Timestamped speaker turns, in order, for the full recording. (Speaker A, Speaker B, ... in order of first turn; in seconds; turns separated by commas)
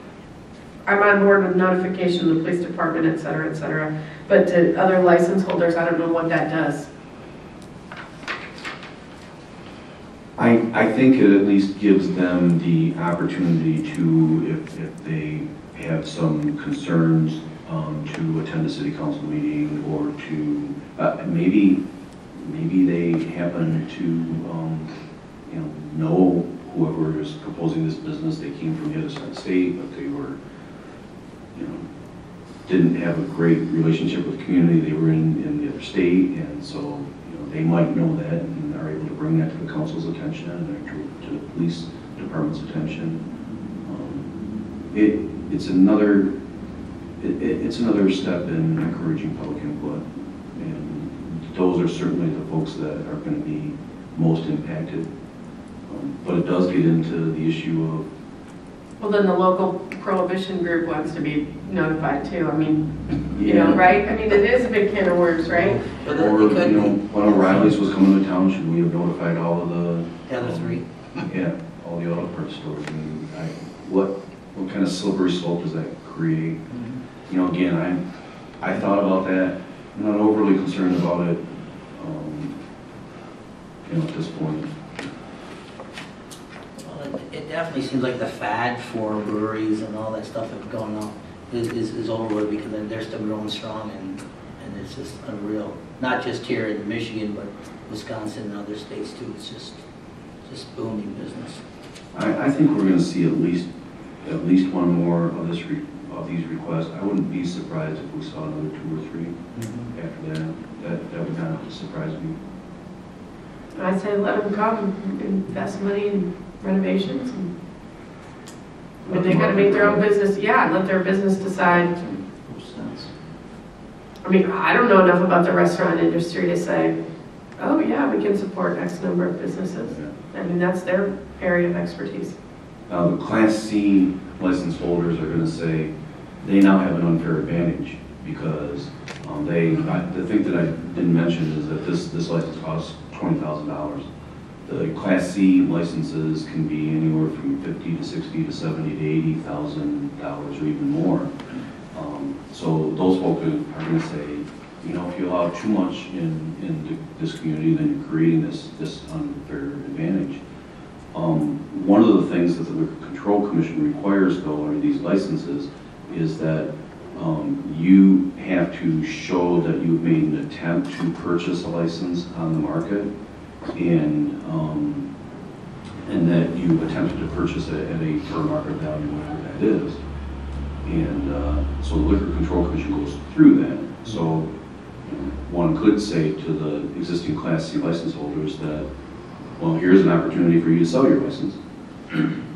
Speaker A: 0.9-6.9, Speaker B: 10.4-24.9, Speaker B: 25.4-30.4, Speaker B: 31.5-31.9, Speaker B: 32.6-43.2, Speaker B: 43.8-44.3, Speaker B: 44.9-46.3, Speaker B: 47.2-55.1, Speaker B: 55.8-58.1, Speaker A: 59.0-65.8, Speaker B: 63.3-63.8, Speaker C: 65.5-67.7, Speaker B: 66.0-76.6, Speaker C: 70.3-71.3, Speaker C: 76.7-77.0, Speaker B: 77.3-78.0, Speaker B: 78.6-82.5, Speaker B: 83.8-84.7, Speaker C: 86.8-99.8, Speaker C: 100.4-101.6, Speaker B: 102.1-103.7, Speaker B: 104.2-109.3, Speaker C: 109.5-109.9, Speaker B: 109.9-112.4, Speaker A: 113.7-117.5, Speaker B: 119.0-120.0, Speaker A: 119.0-121.9, Speaker B: 121.9-123.1, Speaker A: 124.2-126.9, Speaker A: 127.6-132.3, Speaker B: 132.9-144.1, Speaker B: 144.6-151.3, Speaker B: 151.9-160.4, Speaker B: 161.1-173.1, Speaker B: 173.7-175.1, Speaker B: 176.0-180.0, Speaker B: 180.8-184.5, Speaker B: 185.0-188.9, Speaker B: 189.6-191.6